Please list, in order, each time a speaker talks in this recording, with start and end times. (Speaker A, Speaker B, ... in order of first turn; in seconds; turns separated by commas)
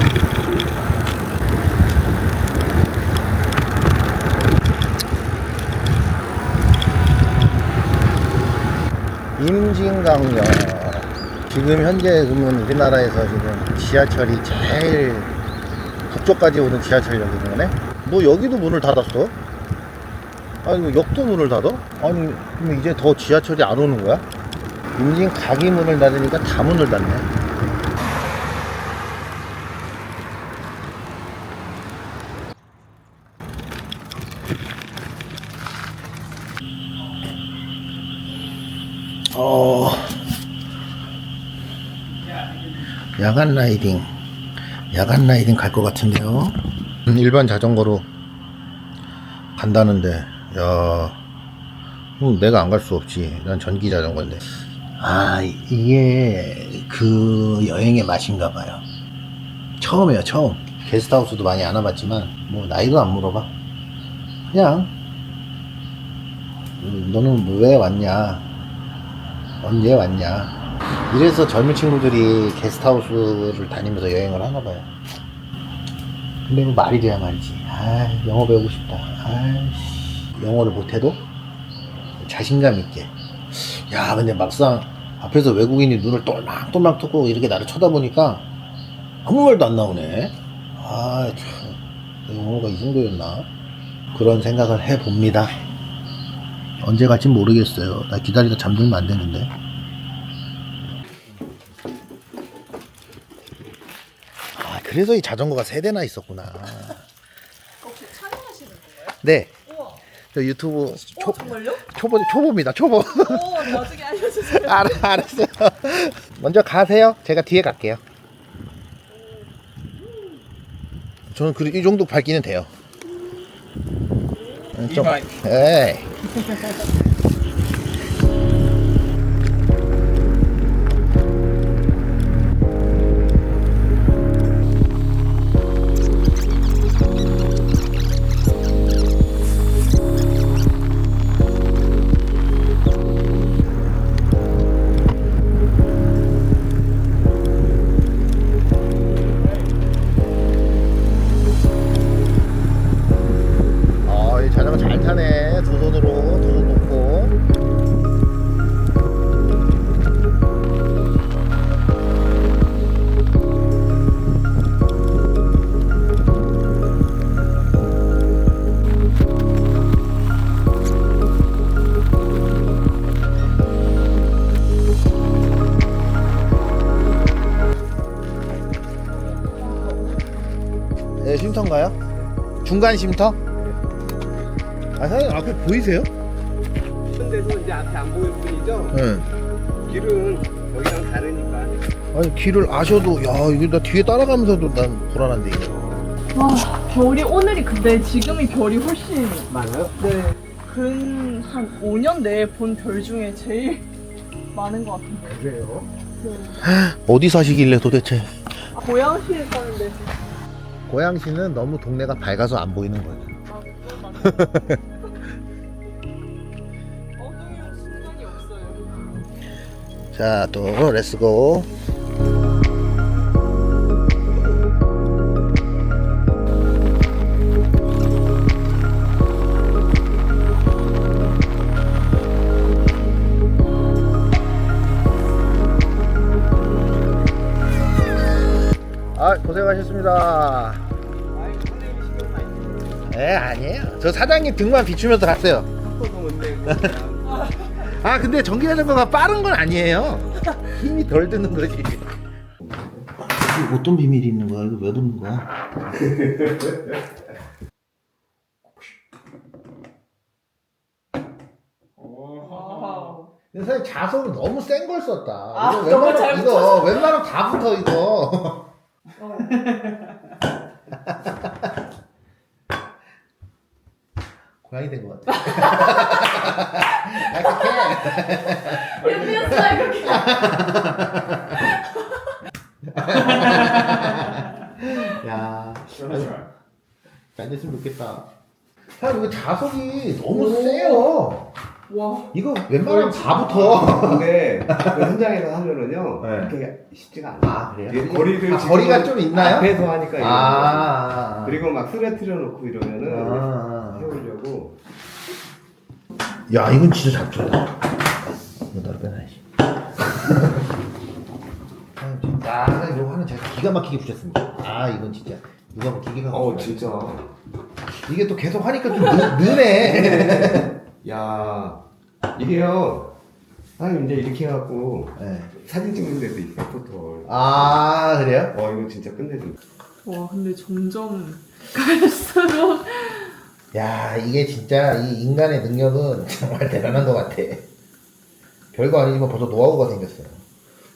Speaker A: 9.4-15.3, Speaker A: 16.1-19.4, Speaker A: 20.6-24.2, Speaker A: 25.0-27.3, Speaker A: 39.3-40.2, Speaker A: 43.2-44.1, Speaker A: 44.9-48.1, Speaker A: 49.6-51.2, Speaker A: 52.2-58.8, Speaker A: 59.8-63.5, Speaker A: 64.5-64.9, Speaker A: 66.8-68.5, Speaker A: 69.6-70.5, Speaker A: 71.1-74.9, Speaker A: 76.5-81.2, Speaker A: 82.2-88.5, Speaker A: 89.2-93.5, Speaker A: 94.1-95.5, Speaker A: 96.8-99.5, Speaker A: 104.5-107.0, Speaker B: 107.8-109.2, Speaker A: 109.2-109.5, Speaker B: 109.7-110.0, Speaker A: 110.3-113.9, Speaker B: 111.2-111.8, Speaker B: 113.0-115.1, Speaker A: 114.5-118.0, Speaker B: 119.2-119.4, Speaker A: 121.3-122.7, Speaker A: 124.8-126.1, Speaker A: 154.1-157.4, Speaker A: 181.2-182.0, Speaker A: 182.6-183.4, Speaker A: 185.0-186.1, Speaker C: 187.1-189.0, Speaker A: 188.9-189.3, Speaker C: 189.8-191.9, Speaker A: 192.1-196.1, Speaker B: 196.3-199.5, Speaker C: 199.6-200.0, Speaker B: 200.1-203.9, Speaker B: 204.5-205.5, Speaker A: 205.4-205.8, Speaker B: 206.2-206.6, Speaker A: 206.6-208.4, Speaker B: 208.7-210.1, Speaker A: 210.9-213.3, Speaker B: 213.5-214.8, Speaker A: 214.2-214.8, Speaker B: 217.2-219.2, Speaker A: 220.1-221.7, Speaker A: 239.2-240.8, Speaker B: 241.4-243.0, Speaker C: 241.7-242.4, Speaker A: 243.1-245.7, Speaker C: 245.8-247.7, Speaker A: 246.7-247.0, Speaker A: 247.7-252.1, Speaker C: 252.6-253.0, Speaker A: 253.3-255.5, Speaker C: 256.0-256.7, Speaker B: 262.4-263.3, Speaker A: 263.5-268.6, Speaker B: 265.6-267.1, Speaker B: 269.2-269.9, Speaker A: 274.6-281.4, Speaker B: 279.0-280.4, Speaker A: 282.9-286.4, Speaker A: 287.4-288.3, Speaker A: 289.0-291.5, Speaker B: 290.4-291.1, Speaker B: 291.9-292.3, Speaker A: 292.3-295.0, Speaker C: 292.8-304.8, Speaker A: 296.2-296.6, Speaker A: 297.4-301.6, Speaker A: 303.1-304.2, Speaker A: 306.5-307.8, Speaker A: 308.7-309.4, Speaker A: 312.0-316.9, Speaker C: 316.3-317.3, Speaker A: 318.0-320.7, Speaker C: 319.4-321.8, Speaker C: 322.3-323.1, Speaker C: 323.8-327.9, Speaker A: 325.2-325.5, Speaker A: 327.2-328.5, Speaker C: 328.5-329.6, Speaker B: 330.0-333.4, Speaker A: 333.7-337.6, Speaker A: 338.7-340.4